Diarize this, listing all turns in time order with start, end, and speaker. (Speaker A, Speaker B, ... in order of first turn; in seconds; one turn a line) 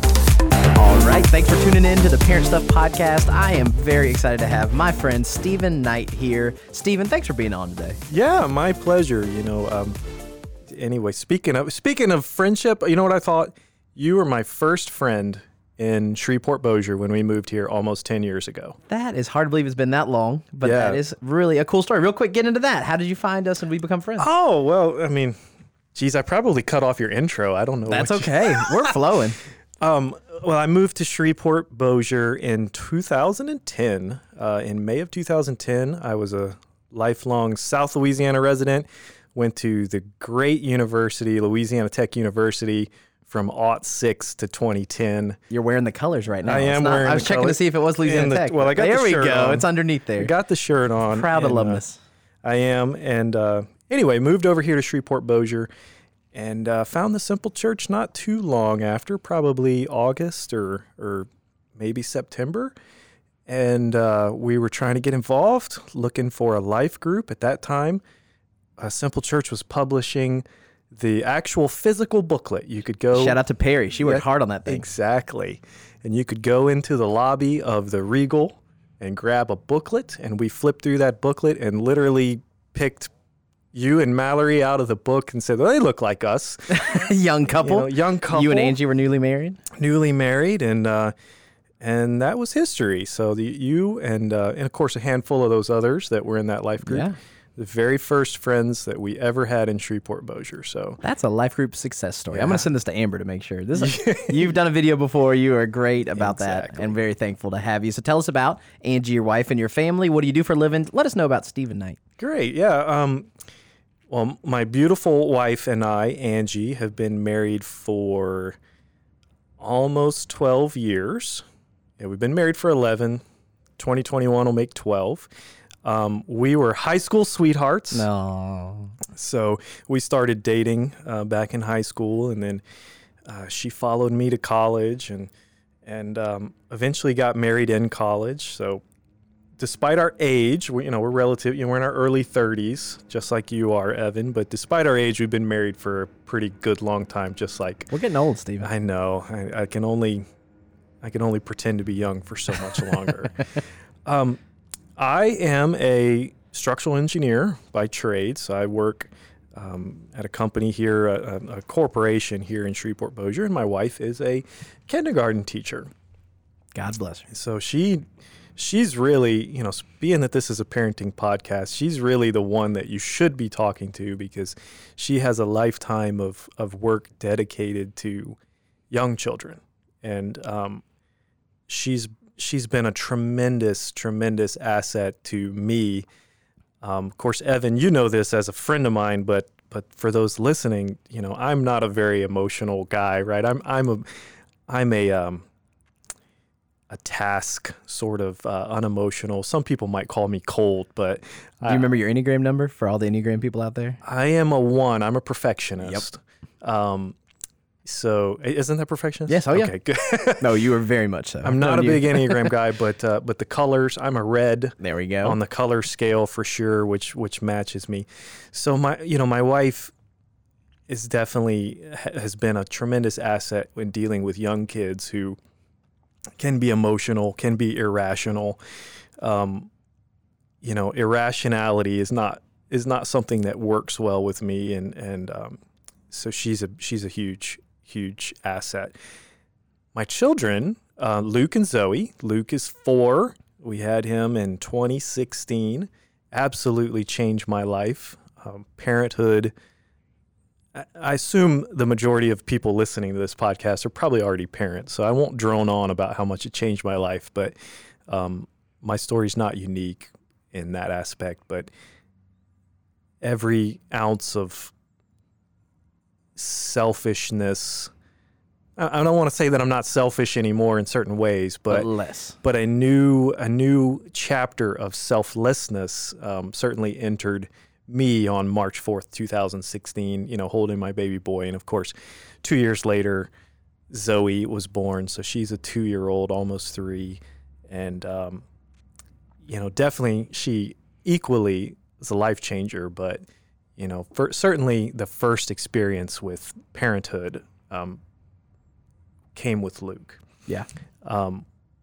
Speaker A: 0.7-8.0
Speaker B: 8.1-10.0
Speaker B: 10.7-18.8
Speaker A: 18.9-24.3
Speaker B: 20.6-21.0
Speaker B: 24.2-25.4
Speaker B: 25.9-28.9
Speaker A: 27.9-29.4
Speaker B: 29.8-45.4
Speaker A: 45.5-50.3
Speaker B: 46.4-51.8
Speaker A: 51.1-52.0
Speaker B: 52.4-55.7
Speaker B: 56.3-62.7
Speaker B: 63.5-68.0
Speaker B: 68.8-73.4
Speaker A: 73.1-74.8
Speaker B: 74.0-83.1
Speaker B: 83.7-88.8
Speaker A: 86.7-89.6
Speaker B: 89.7-91.1
Speaker B: 91.8-101.0
Speaker A: 96.8-97.2
Speaker A: 101.0-112.0
Speaker B: 102.3-102.7
Speaker B: 103.8-104.5
Speaker B: 106.2-106.9
Speaker B: 112.2-113.3
Speaker B: 114.1-118.6
Speaker B: 119.6-121.4
Speaker B: 122.0-123.2
Speaker B: 123.8-125.3
Speaker B: 125.8-128.1
Speaker A: 127.9-128.9
Speaker B: 129.1-132.6
Speaker B: 133.2-135.3
Speaker B: 135.8-138.8
Speaker B: 139.6-147.9
Speaker A: 147.9-148.7
Speaker B: 148.6-150.2
Speaker B: 151.0-154.4
Speaker B: 155.0-165.9
Speaker A: 166.8-167.3
Speaker B: 167.3-168.0
Speaker B: 168.6-178.4
Speaker B: 178.9-180.8
Speaker B: 181.7-186.1
Speaker B: 186.8-194.1
Speaker B: 194.7-195.5
Speaker B: 196.9-201.8
Speaker A: 201.6-204.0
Speaker B: 204.0-207.2
Speaker B: 207.8-210.6
Speaker A: 209.3-209.7
Speaker A: 210.4-212.5
Speaker B: 211.4-219.9
Speaker A: 214.8-215.4
Speaker B: 220.9-225.4
Speaker B: 226.4-228.6
Speaker B: 229.2-229.7
Speaker B: 230.6-239.0
Speaker B: 239.9-249.5
Speaker B: 250.7-257.5
Speaker B: 258.1-261.7
Speaker B: 263.2-264.7
Speaker B: 266.4-267.9
Speaker B: 268.8-271.9
Speaker A: 271.7-272.4
Speaker B: 272.4-283.3
Speaker B: 283.9-288.4
Speaker B: 289.4-293.2
Speaker B: 293.8-298.0
Speaker B: 299.4-300.2
Speaker B: 301.0-301.4